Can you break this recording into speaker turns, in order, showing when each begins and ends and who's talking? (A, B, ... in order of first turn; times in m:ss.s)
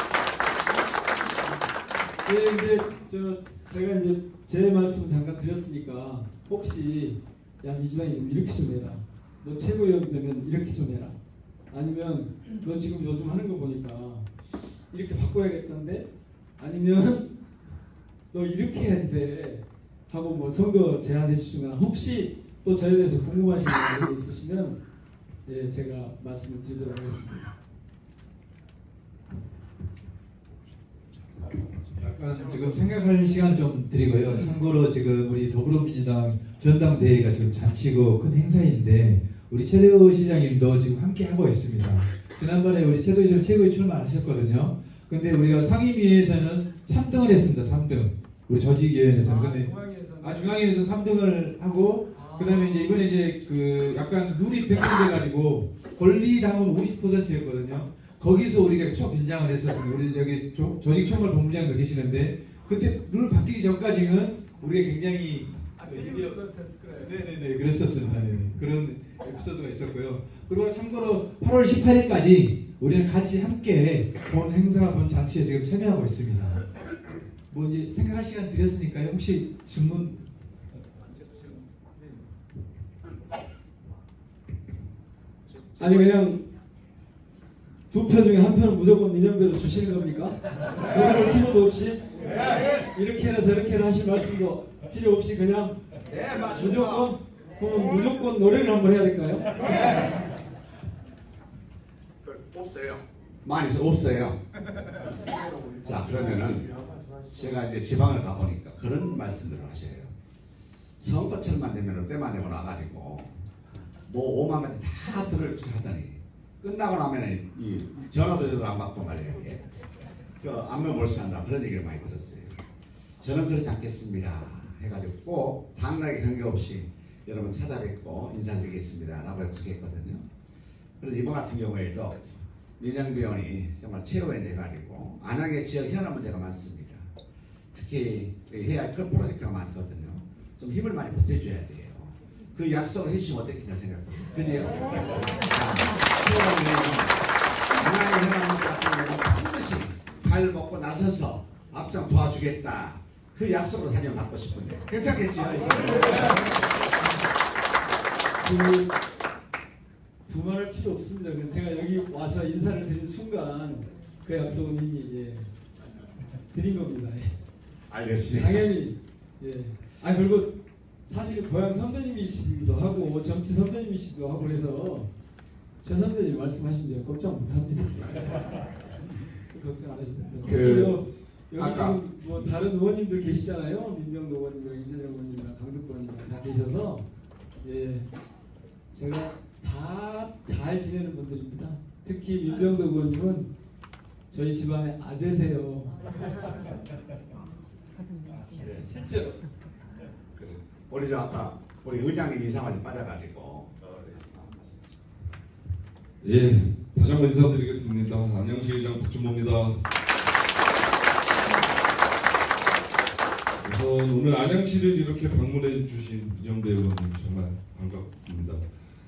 0:02.2-0:11.2 A
0:11.7-0:14.3 A
0:14.9-0:17.3 A
0:18.3-0:24.8 A
0:25.4-0:27.5 A
0:31.9-1:06.4 B
0:49.2-0:50.7 A
0:52.1-0:52.9 A
1:05.8-1:07.3 A
1:07.0-1:16.6 B
1:17.5-1:20.2 B
1:25.8-1:26.5 A
1:27.9-1:35.8 A
1:36.1-1:37.1 C
1:36.5-1:39.8 A
1:42.2-1:44.4 C
1:45.8-1:50.1 C
1:51.0-1:53.4 C
1:54.1-1:59.6 C
2:00.4-2:02.6 C
2:03.2-2:10.2 C
2:11.0-2:17.1 C
2:17.7-2:27.2 C
2:27.7-2:36.4 C
2:38.4-2:38.9 A
2:40.3-2:45.5 A
2:46.5-2:47.3 A
2:47.9-2:48.7 C
2:48.3-2:55.1 A
2:55.8-2:58.5 A
2:59.5-3:07.0 A
3:00.4-3:01.0 C
3:01.6-3:02.0 C
3:07.6-3:08.1 A
3:08.9-3:13.5 A
3:14.3-3:16.0 A
3:18.6-3:19.4 A
3:20.9-3:24.7 C
3:26.2-3:29.8 D
3:33.6-3:38.6 D